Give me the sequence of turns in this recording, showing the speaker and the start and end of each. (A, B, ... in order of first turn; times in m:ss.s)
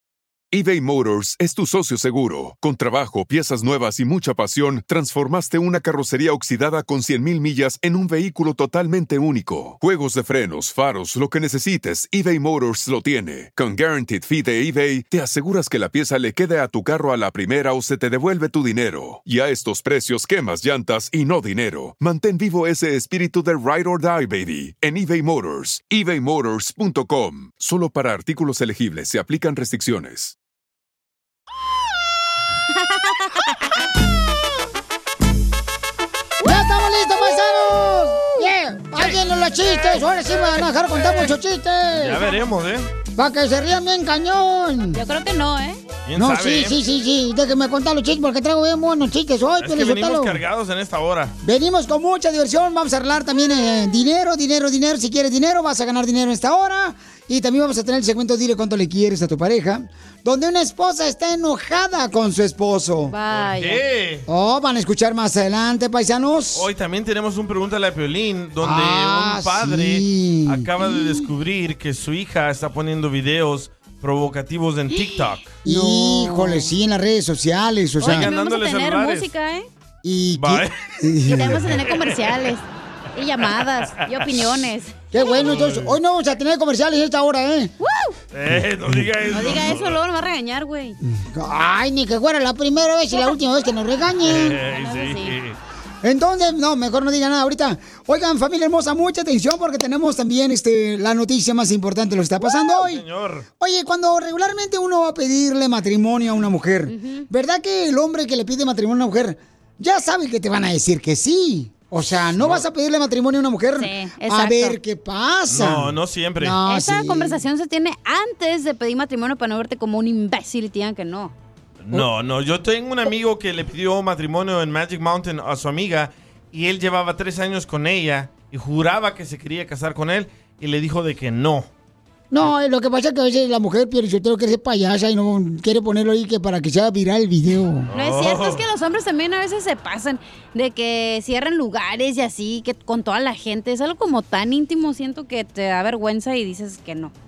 0:00.5-0:30.3 A
0:33.2-0:33.5 B
0:36.4-0:42.2 C
0:41.9-0:42.9 D
0:43.1-0:45.0 C
0:44.9-0:45.8 B
0:46.1-0:46.8 D
0:46.2-0:50.4 C
0:49.6-0:51.3 D
0:51.4-1:03.1 C
1:03.1-1:03.8 B
1:03.3-1:04.2 D
1:04.3-1:06.7 C
1:06.5-1:15.6 D
1:08.6-1:11.2 C
1:15.6-1:16.7 B
1:15.6-1:18.3 C
1:18.0-1:19.7 B
1:18.0-1:19.3 D
1:20.0-1:21.8 C
1:20.4-1:20.8 D
1:21.2-1:25.5 B
1:21.9-1:22.3 D
1:25.1-1:27.7 C
1:25.4-1:25.9 D
1:27.8-1:28.1 B
1:28.3-1:30.0 D
1:29.3-1:31.0 B
1:31.0-1:34.6 C
1:34.2-1:35.6 D
1:34.7-1:35.3 B
1:36.0-1:43.0 C
1:42.7-1:43.4 D
1:43.6-1:57.4 C
1:46.9-1:47.3 B
1:52.4-1:52.6 D
1:53.8-1:54.8 B
1:55.5-1:56.6 D
1:56.7-2:01.3 B
2:01.8-2:11.7 D
2:12.3-2:17.9 C
2:17.9-2:18.6 D
2:17.9-2:27.1 B